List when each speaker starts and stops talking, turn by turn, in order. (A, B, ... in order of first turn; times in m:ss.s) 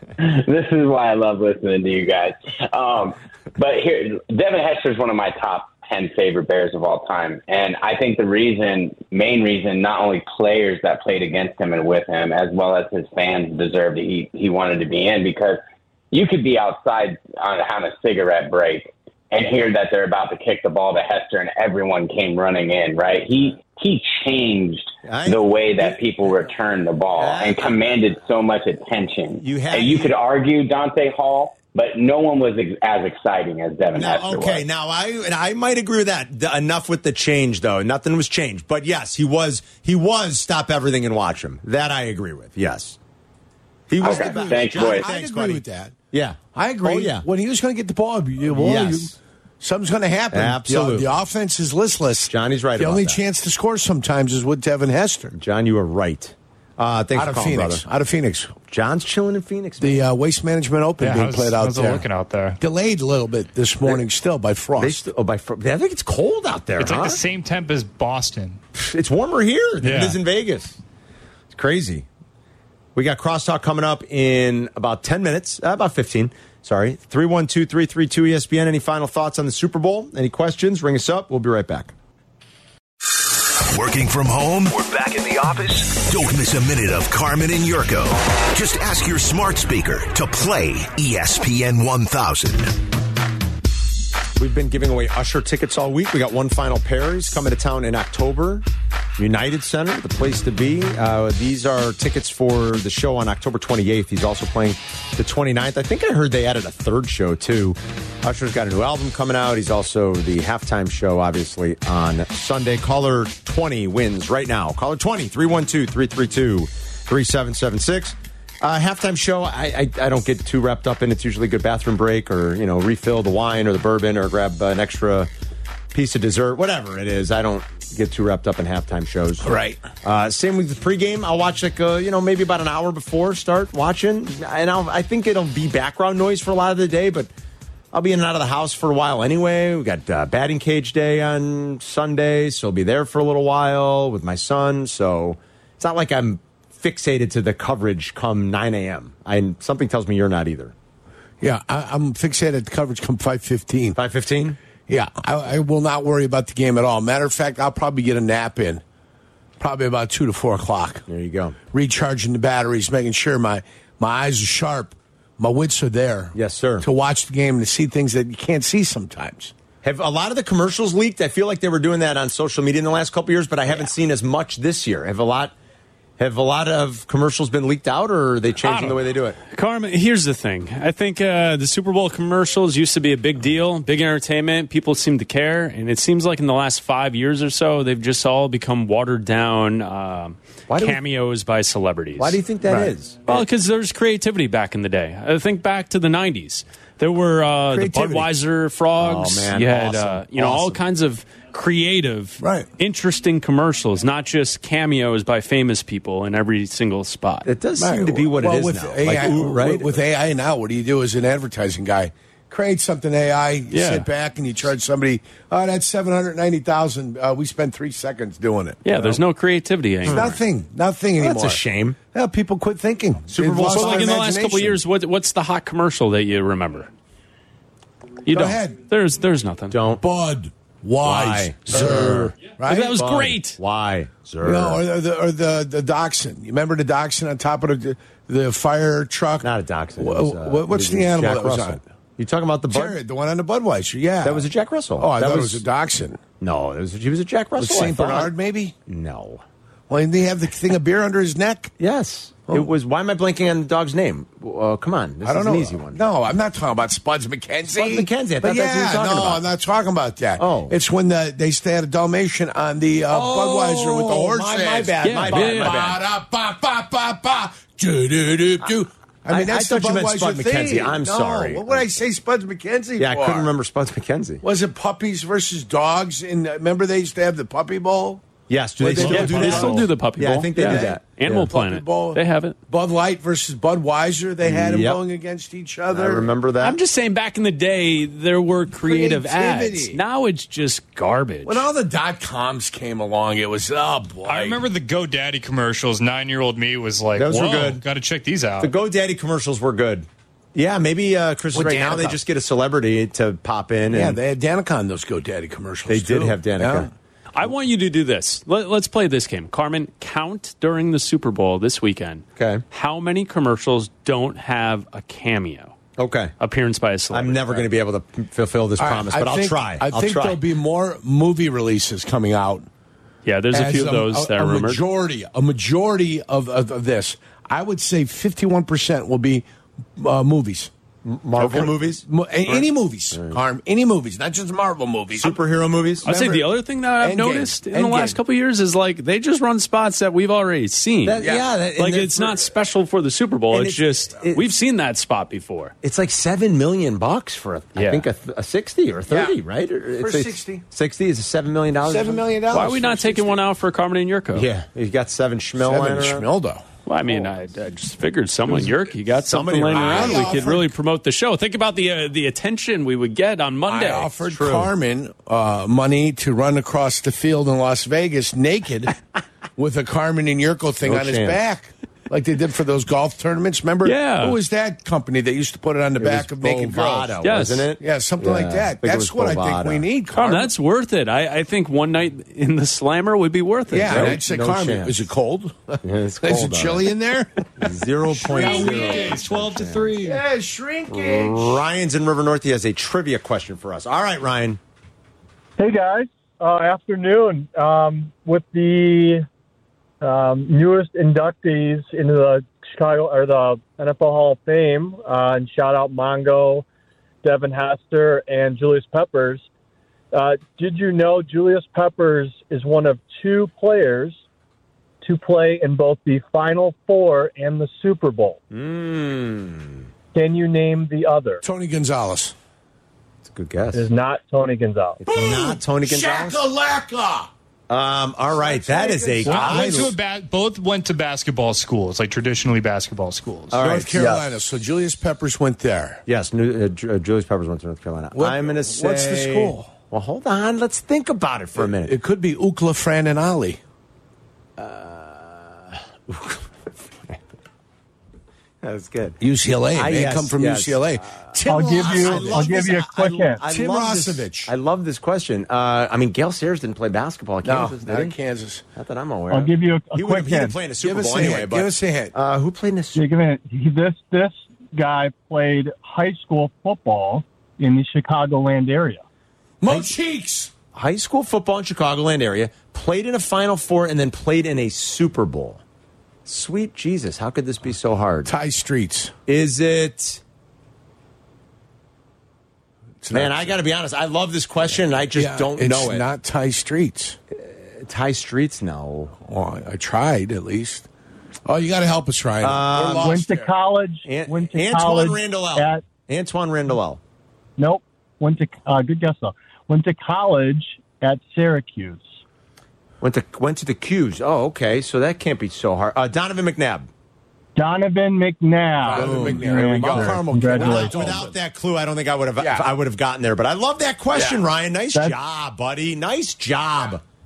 0:00.2-0:34.6 A
0:25.0-0:26.0 B
0:27.2-0:27.9 B
0:29.4-0:30.1 B
0:33.9-0:43.0 B
0:43.9-0:47.2 B
0:44.0-0:45.1 A
0:44.0-0:45.9 C
0:46.5-0:55.3 C
0:48.5-0:49.1 B
0:50.3-0:51.1 B
0:52.3-0:53.2 B
0:55.3-0:57.8 B
0:57.1-0:58.5 C
0:58.7-1:00.0 B
0:59.8-1:02.1 C
1:01.0-1:02.6 D
1:02.6-1:05.0 C
1:04.8-1:07.2 B
1:06.8-1:08.6 D
1:08.7-1:10.8 B
1:09.8-1:10.2 D
1:11.5-1:12.0 B
1:12.9-1:21.9 B
1:23.2-1:32.7 E
1:34.4-1:38.6 B
1:39.2-2:05.3 B
2:05.9-2:17.3 B
2:09.4-2:09.8 C
2:17.9-2:30.7 B
2:31.4-2:34.0 C
2:33.9-2:34.6 B
2:34.9-2:38.8 C
2:39.6-2:41.0 C
2:41.1-2:41.6 B
2:41.7-2:49.5 C
2:46.3-2:46.9 B
2:49.8-2:55.5 B
2:56.2-2:59.4 B
2:58.6-3:12.4 F
3:10.7-3:11.0 B
3:12.2-3:13.4 B
3:12.6-3:12.9 C
3:13.3-3:27.5 F
3:17.7-3:18.3 B
3:19.0-3:20.8 B
3:22.4-3:22.7 C
3:27.4-3:30.0 B
3:27.8-3:39.2 C
3:33.7-3:34.1 F
3:38.8-3:40.3 F
3:40.0-3:41.6 C
3:40.0-3:40.4 B
3:41.2-3:42.0 B
3:42.1-3:44.8 C
3:43.3-3:44.3 B
3:43.7-3:46.9 F
3:48.2-3:49.8 F
3:48.3-3:48.8 C
3:49.7-3:50.0 B
3:50.0-3:53.1 C
3:51.0-3:52.3 B
3:52.6-3:53.6 F
3:52.9-3:54.8 B
3:54.4-4:01.8 C
3:59.4-4:03.0 B
4:02.7-4:06.2 C
4:04.2-4:05.6 B
4:06.4-4:08.3 B
4:07.6-4:08.7 C
4:08.9-4:09.4 B
4:09.9-4:11.7 C
4:11.8-4:16.0 B
4:15.2-4:33.5 C
4:17.8-4:19.4 B
4:20.4-4:20.7 B
4:23.1-4:26.0 B
4:25.0-4:25.9 F
4:29.3-4:31.9 B
4:33.0-4:34.4 B
4:34.4-4:38.2 C
4:38.5-4:41.5 B
4:38.8-4:39.9 C
4:38.8-4:42.6 F
4:40.6-4:46.3 C
4:44.4-4:45.0 B
4:45.9-4:46.8 B
4:46.6-4:51.6 F
4:48.8-4:50.0 C
4:51.4-4:54.6 C
4:54.2-4:58.7 D
4:57.2-4:57.8 B
4:58.6-5:04.2 B
5:01.5-5:02.2 C
5:03.9-5:06.9 C
5:05.9-5:06.9 B
5:07.3-5:15.7 F
5:12.4-5:12.6 B
5:16.0-5:16.3 B
5:16.4-5:17.7 F
5:17.1-5:20.4 B
5:18.8-5:22.7 C
5:23.2-5:24.8 F
5:23.5-5:29.4 C
5:30.0-5:30.7 C
5:31.0-5:33.4 B
5:31.4-5:35.4 C
5:35.1-5:36.0 B
5:36.0-5:38.2 C
5:36.0-5:45.7 F
5:41.0-5:42.4 B
5:41.2-5:41.5 C
5:43.5-5:44.4 B
5:45.8-5:52.2 B
5:47.8-5:48.0 F
5:49.1-5:49.4 C
5:49.9-5:50.6 C
5:51.8-5:53.4 C
5:52.5-5:54.5 F
5:54.3-5:56.3 B
5:55.6-5:56.6 C
5:56.8-6:04.1 F
5:59.2-6:00.6 B
5:59.7-6:00.7 C
6:03.7-6:08.9 C
6:04.2-6:04.7 B
6:09.6-6:17.2 C
6:10.8-6:11.4 B
6:13.8-6:14.4 F
6:16.0-6:19.8 B
6:17.2-6:17.7 F
6:17.8-6:20.5 C
6:20.1-6:24.2 F
6:23.7-6:29.3 C
6:23.8-6:25.0 B
6:25.8-6:26.9 B
6:27.6-6:30.0 B
6:28.2-6:30.2 D
6:30.0-6:31.6 C
6:30.9-6:34.6 B
6:35.6-6:39.2 G
6:40.0-6:46.6 G
6:47.2-6:49.4 G
6:50.1-6:54.2 G
6:55.0-6:58.4 G
6:58.5-6:59.8 B
7:00.1-7:01.4 G
7:01.4-7:02.3 C
7:03.2-7:03.8 B
7:03.7-7:05.0 G
7:05.0-7:06.4 B
7:05.0-7:07.3 C
7:07.7-7:10.0 B
7:08.3-7:09.9 C
7:09.2-7:13.6 D
7:13.5-7:14.3 B
7:13.5-7:16.0 C
7:16.0-7:21.9 B
7:18.1-7:19.7 C
7:21.6-7:23.6 C
7:24.6-7:26.4 B
7:28.6-7:29.2 B
7:29.2-7:32.6 C
7:29.7-7:38.2 B
7:31.4-7:33.4 G
7:33.4-7:34.5 C
7:37.4-7:38.6 C
7:38.7-7:43.0 B
7:39.3-7:40.6 G
7:40.8-7:42.1 C
7:43.0-7:49.0 G
7:49.6-7:50.5 C
7:50.7-7:55.6 B
7:56.2-7:58.3 B
7:58.2-7:59.1 C
7:59.3-8:00.2 B
8:03.0-8:03.6 C
8:03.1-8:06.0 B
8:05.1-8:07.2 C
8:07.3-8:09.2 B
8:09.2-8:10.9 C
8:11.4-8:13.5 C
8:12.4-8:13.2 B
8:12.9-8:15.8 G
8:14.0-8:17.0 B
8:17.6-8:22.1 G
8:23.0-8:26.9 B
8:27.6-8:31.0 G
8:28.8-8:31.3 C
8:28.9-8:37.0 B
8:32.4-8:32.7 C
8:34.1-8:34.4 C